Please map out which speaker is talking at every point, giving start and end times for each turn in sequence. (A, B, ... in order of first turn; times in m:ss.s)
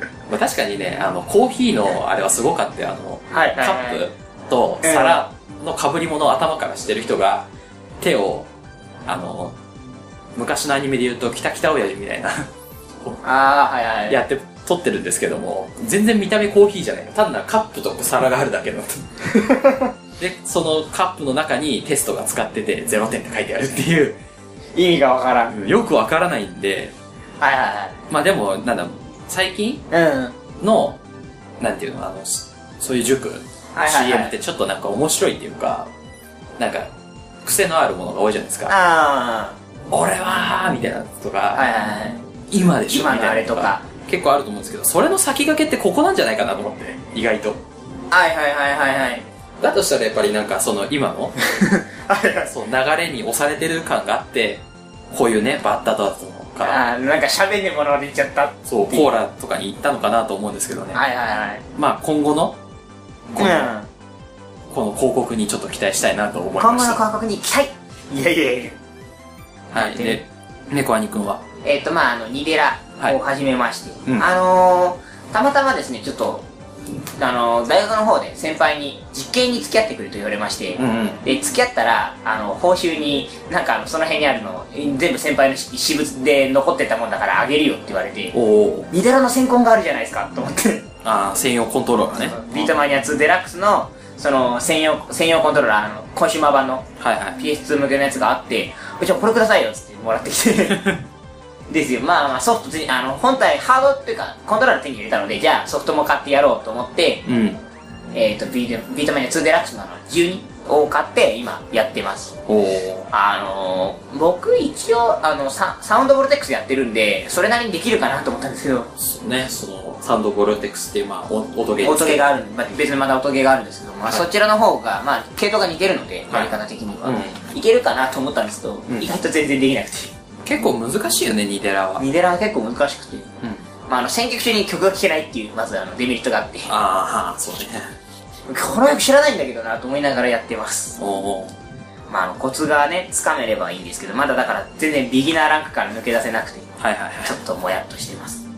0:00.3-0:07.5 A
0:03.3-0:04.0 B
0:04.8-0:05.2 B
0:08.0-0:08.5 A
0:09.1-0:09.6 A
0:10.4-0:12.5 A
0:13.2-0:14.2 B
0:14.1-0:19.1 A
0:19.3-0:19.9 B
0:20.2-0:24.2 A
0:24.8-0:25.6 B
0:25.5-0:26.9 A
0:27.4-0:28.0 B
0:28.1-0:29.9 A
0:29.9-0:30.4 B
0:30.6-0:31.0 A
0:31.6-0:35.9 A
0:33.8-0:34.4 B
0:36.6-0:36.9 A
0:37.4-0:38.7 A
0:38.7-0:39.6 B
0:39.9-0:41.7 A
0:41.6-0:42.2 B
0:42.5-0:47.6 A
0:42.9-0:43.8 B
0:48.1-0:49.3 B
0:49.6-0:51.4 A
0:51.5-0:52.5 B
0:52.5-0:56.8 A
0:56.6-0:59.1 B
0:58.6-1:01.0 A
1:00.9-1:01.6 B
1:01.8-1:02.6 A
1:03.3-1:03.7 A
1:03.4-1:03.9 B
1:04.7-1:07.0 A
1:06.6-1:08.8 B
1:09.7-1:11.5 A
1:09.7-1:10.2 B
1:11.6-1:16.5 B
1:14.0-1:14.3 A
1:17.2-1:28.4 B
1:20.8-1:21.2 A
1:28.3-1:28.9 A
1:28.9-1:30.9 B
1:31.0-1:32.8 A
1:32.2-1:36.9 B
1:37.0-1:37.4 A
1:37.4-1:41.0 B
1:41.7-1:47.2 B
1:47.3-1:47.6 A
1:48.1-1:52.4 B
1:52.5-1:53.1 A
1:53.1-1:58.9 B
1:59.0-2:02.2 A
2:01.8-2:10.1 B
2:06.3-2:07.5 A
2:10.4-2:12.0 A
2:12.0-2:13.3 B
2:13.9-2:16.7 B
2:16.7-2:17.9 A
2:18.5-2:21.0 B
2:21.0-2:21.6 A
2:22.1-2:26.7 B
2:26.8-2:27.4 A
2:27.2-2:28.4 B